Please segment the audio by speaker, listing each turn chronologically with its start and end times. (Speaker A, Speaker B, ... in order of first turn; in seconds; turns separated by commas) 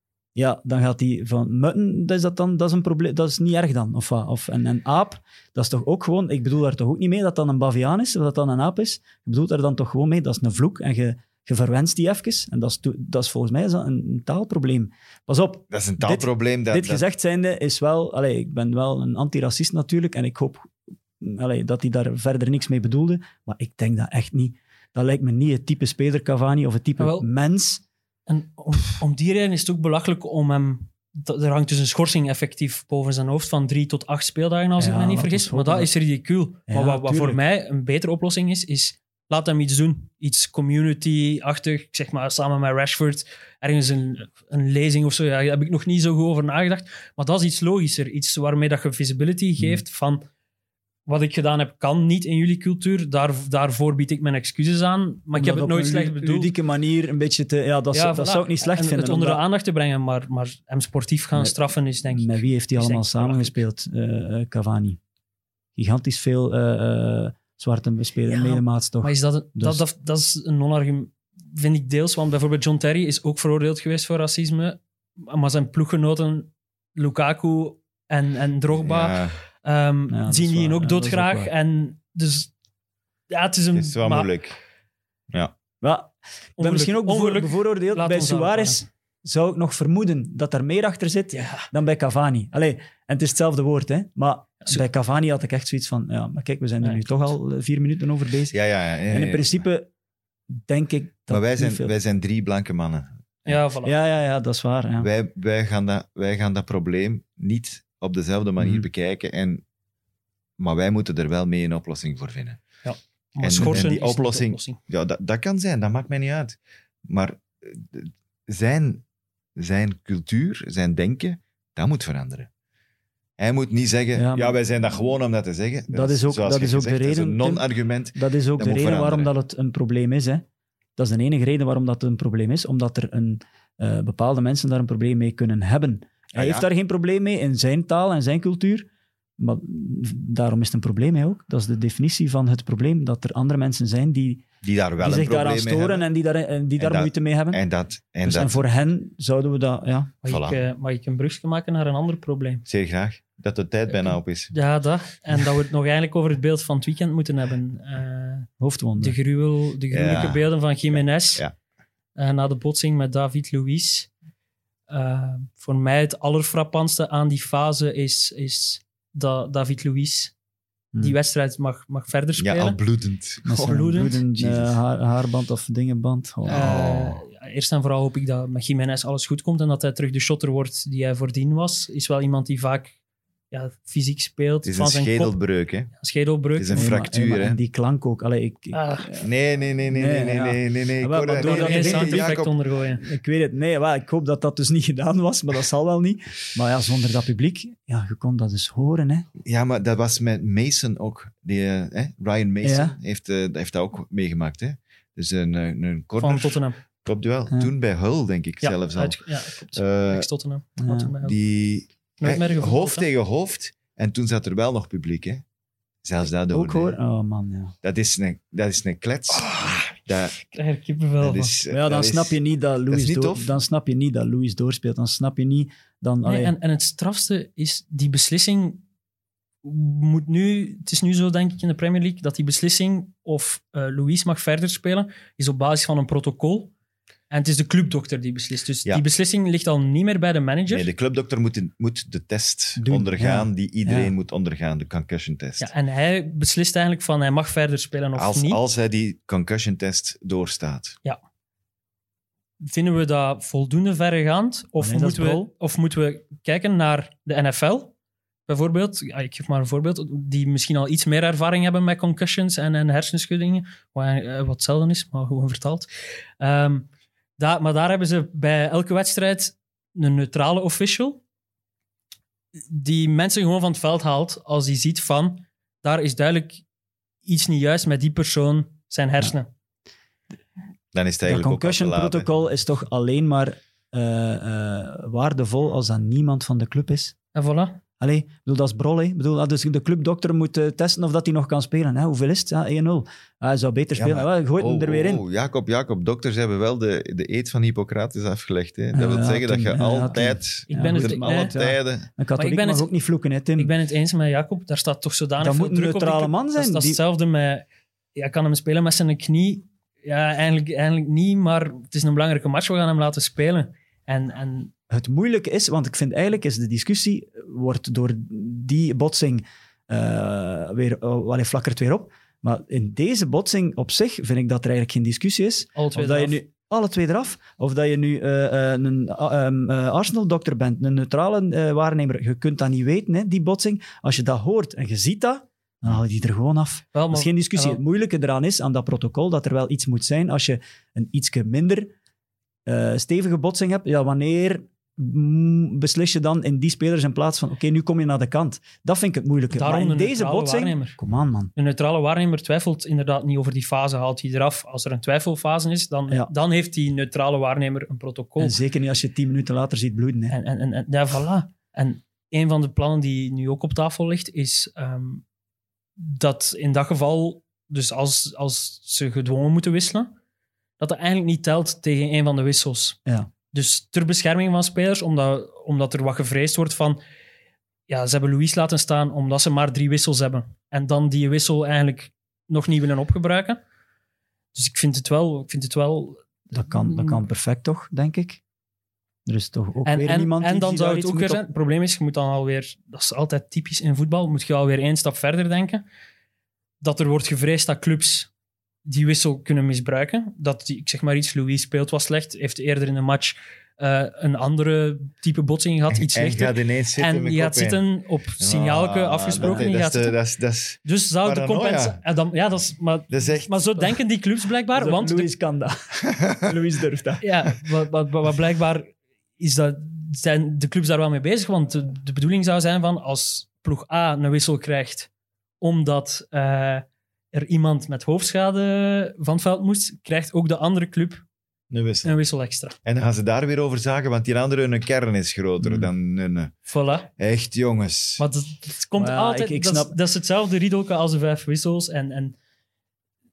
Speaker A: 0.4-27.8, Speaker B: 15.7-17.0, Speaker C: 27.0-27.3, Speaker C: 28.3-50.2, Speaker A: 34.8-35.9, Speaker A: 36.7-37.4, Speaker C: 51.1-56.5, Speaker A: 55.4-59.4, Speaker C: 57.9-63.6, Speaker A: 62.1-65.0, Speaker A: 65.8-69.8, Speaker C: 68.3-82.5, Speaker B: 78.8-79.4, Speaker A: 80.1-81.5, Speaker C: 83.3-84.3, Speaker B: 83.7-84.6, Speaker A: 85.8-98.6, Speaker C: 86.6-88.8, Speaker C: 91.3-91.7, Speaker C: 96.8-97.3, Speaker B: 98.5-99.6, Speaker A: 99.1-99.9, Speaker A: 100.5-101.9, Speaker B: 101.3-103.1, Speaker C: 103.5-103.9, Speaker A: 103.8-105.1, Speaker B: 105.0-109.6, Speaker A: 108.6-108.9, Speaker B: 110.6-112.6, Speaker C: 112.8-114.8, Speaker B: 113.4-119.0, Speaker B: 119.6-122.5, Speaker B: 123.4-129.3, Speaker A: 124.2-124.6, Speaker A: 125.9-130.4, Speaker A: 131.0-144.4, Speaker B: 136.3-136.7, Speaker B: 144.6-146.1, Speaker A: 145.0-147.6, Speaker B: 146.8-148.6, Speaker A: 148.2-150.1, Speaker C: 150.2-152.6, Speaker B: 150.3-150.6, Speaker B: 152.7-154.5, Speaker C: 153.9-158.5, Speaker A: 158.6-159.2, Speaker C: 159.0-161.4, Speaker B: 159.9-161.5, Speaker C: 162.2-164.1, Speaker C: 164.9-170.3, Speaker C: 171.0-172.8, Speaker B: 172.4-174.8, Speaker A: 173.5-176.7, Speaker C: 173.6-174.2, Speaker B: 176.5-177.2, Speaker C: 176.5-182.9, Speaker C: 183.5-185.4, Speaker B: 184.7-185.9, Speaker C: 186.0-186.9, Speaker B: 186.6-187.6, Speaker A: 186.7-189.2, Speaker C: 188.7-189.2, Speaker B: 189.2-192.5, Speaker A: 189.9-192.3, Speaker C: 191.4-193.0, Speaker A: 193.0-199.3, Speaker B: 199.4-209.2, Speaker A: 202.6-203.0, Speaker C: 206.2-206.8, Speaker C: 208.6-211.4, Speaker B: 209.7-210.3, Speaker A: 210.8-211.1, Speaker B: 211.2-215.4, Speaker C: 212.2-213.1, Speaker B: 216.0-217.0, Speaker A: 216.5-217.7, Speaker B: 217.8-220.4, Speaker C: 219.5-219.9, Speaker C: 220.5-221.5, Speaker B: 221.2-223.5, Speaker A: 221.7-226.5, Speaker C: 226.2-228.8, Speaker C: 229.6-236.7, Speaker C: 237.3-240.9, Speaker B: 240.7-245.7, Speaker A: 242.8-244.1, Speaker C: 245.6-248.6, Speaker B: 248.2-251.0, Speaker C: 252.6-257.9, Speaker A: 254.8-255.5, Speaker C: 258.5-265.9, Speaker C: 266.4-271.2, Speaker C: 272.7-276.6, Speaker C: 277.2-279.5, Speaker B: 280.9-282.3, Speaker A: 281.2-287.1, Speaker C: 287.4-287.8, Speaker A: 288.0-295.2, Speaker B: 294.0-302.1, Speaker A: 298.9-303.7, Speaker C: 300.7-301.5, Speaker C: 302.4-302.9, Speaker C: 303.6-314.7, Speaker A: 305.4-307.0, Speaker A: 314.9-341.9, Speaker C: 325.8-326.4, Speaker C: 336.9-337.8, Speaker A: 342.7-351.5, Speaker C: 349.5-351.0, Speaker C: 351.6-358.6, Speaker A: 358.4-360.3, Speaker C: 360.3-365.2, Speaker C: 366.0-370.1, Speaker C: 370.8-373.0, Speaker C: 373.5-377.0, Speaker C: 377.9-383.6, Speaker C: 384.5-387.2, Speaker A: 386.5-388.4, Speaker A: 389.3-391.4, Speaker C: 389.9-395.8, Speaker C: 396.8-398.3, Speaker C: 398.9-410.2, Speaker B: 405.9-407.8, Speaker B: 408.4-412.0, Speaker A: 409.4-409.7, Speaker C: 410.8-415.3, Speaker B: 413.1-413.8, Speaker A: 414.8-417.5, Speaker B: 416.2-416.5, Speaker C: 417.2-425.1, Speaker C: 425.6-431.2, Speaker B: 431.7-432.1, Speaker C: 432.0-432.8, Speaker B: 432.9-436.6, Speaker A: 435.6-435.9, Speaker C: 436.7-437.1, Speaker B: 437.2-438.3, Speaker C: 438.2-442.4, Speaker A: 439.0-439.9